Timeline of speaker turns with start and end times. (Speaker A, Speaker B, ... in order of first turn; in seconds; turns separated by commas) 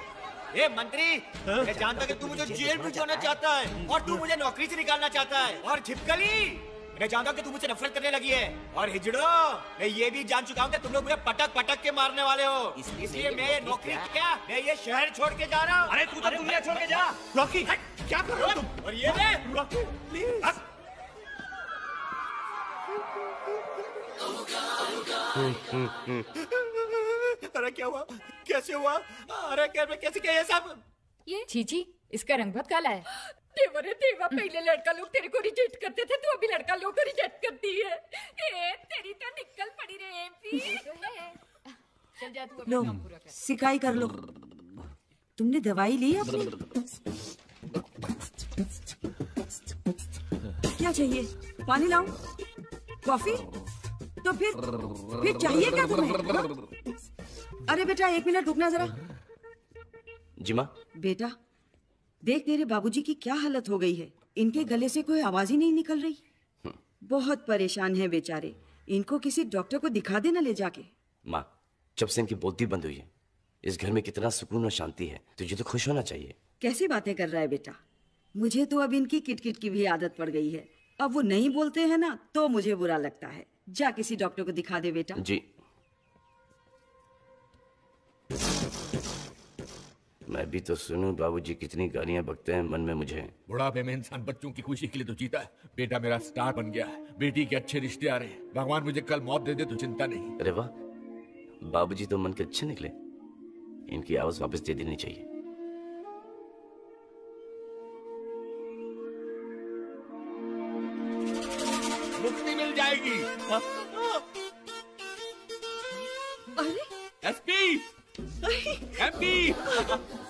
Speaker A: 0.5-19.6, Speaker B: 1.5-1.8, Speaker B: 3.9-4.2, Speaker B: 15.9-16.7, Speaker B: 17.3-20.5, Speaker C: 25.3-26.2, Speaker A: 27.5-30.8, Speaker D: 31.4-33.0, Speaker E: 33.5-41.3, Speaker D: 42.2-43.3, Speaker F: 42.7-44.2, Speaker F: 45.4-46.5, Speaker F: 50.8-52.1, Speaker F: 53.0-53.5, Speaker F: 54.2-56.5, Speaker F: 57.7-59.0, Speaker C: 60.4-60.7, Speaker F: 61.0-61.3, Speaker F: 62.2-66.2, Speaker F: 67.0-70.9, Speaker C: 71.2-73.1, Speaker C: 73.6-76.3, Speaker F: 76.6-77.8, Speaker F: 78.3-85.2, Speaker C: 85.2-85.5, Speaker C: 90.3-93.3, Speaker G: 93.5-100.3, Speaker C: 100.4-100.7, Speaker C: 101.7-102.9, Speaker C: 103.9-105.2, Speaker G: 112.2-114.1, Speaker F: 116.6-116.9, Speaker G: 117.2-117.8, Speaker F: 118.4-118.9, Speaker G: 119.0-120.0